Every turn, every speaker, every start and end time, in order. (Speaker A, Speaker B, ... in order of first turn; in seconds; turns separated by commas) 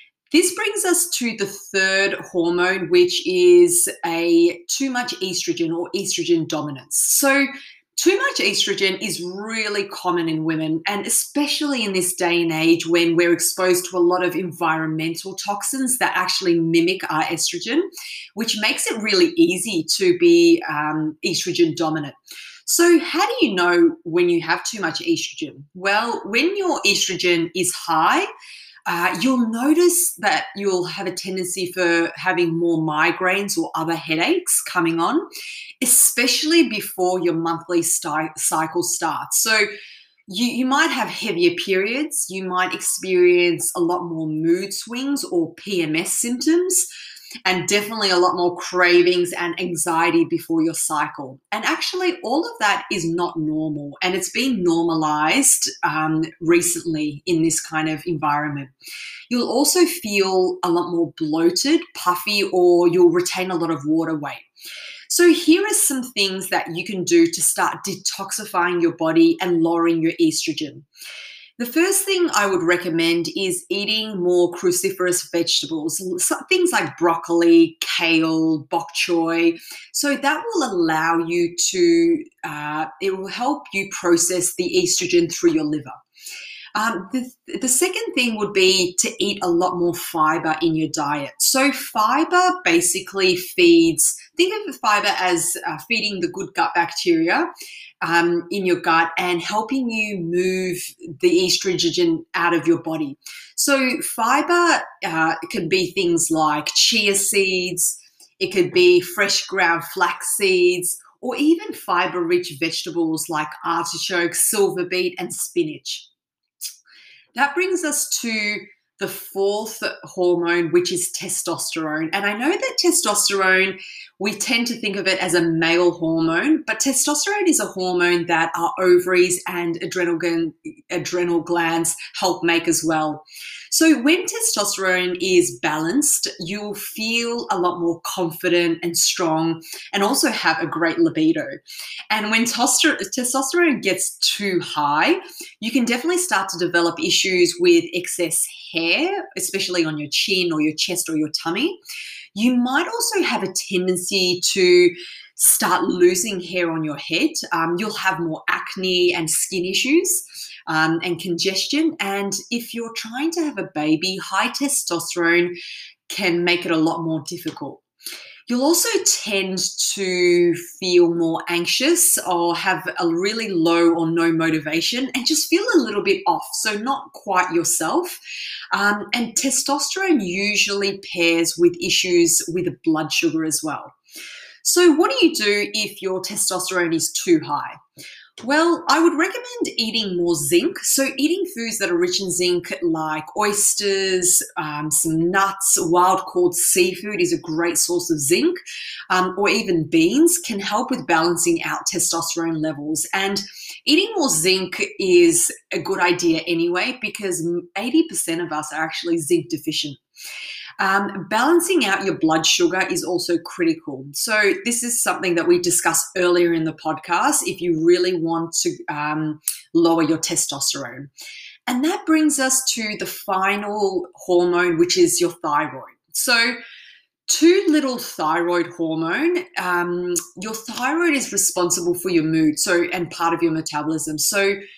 Speaker A: 0.3-28.3, Speaker A: 28.9-35.3, Speaker A: 35.8-39.7, Speaker A: 40.3-46.9, Speaker A: 47.4-58.7, Speaker A: 59.3-64.5, Speaker A: 65.1-70.8, Speaker A: 71.6-86.0, Speaker A: 86.7-97.5, Speaker A: 98.0-116.1, Speaker A: 117.3-151.8, Speaker A: 152.3-165.6, Speaker A: 166.1-167.8, Speaker A: 168.5-178.2, Speaker A: 178.7-183.9, Speaker A: 184.6-187.8, Speaker A: 188.4-198.6, Speaker A: 199.1-210.0, Speaker A: 210.8-221.1, Speaker A: 221.7-226.6, Speaker A: 227.3-234.6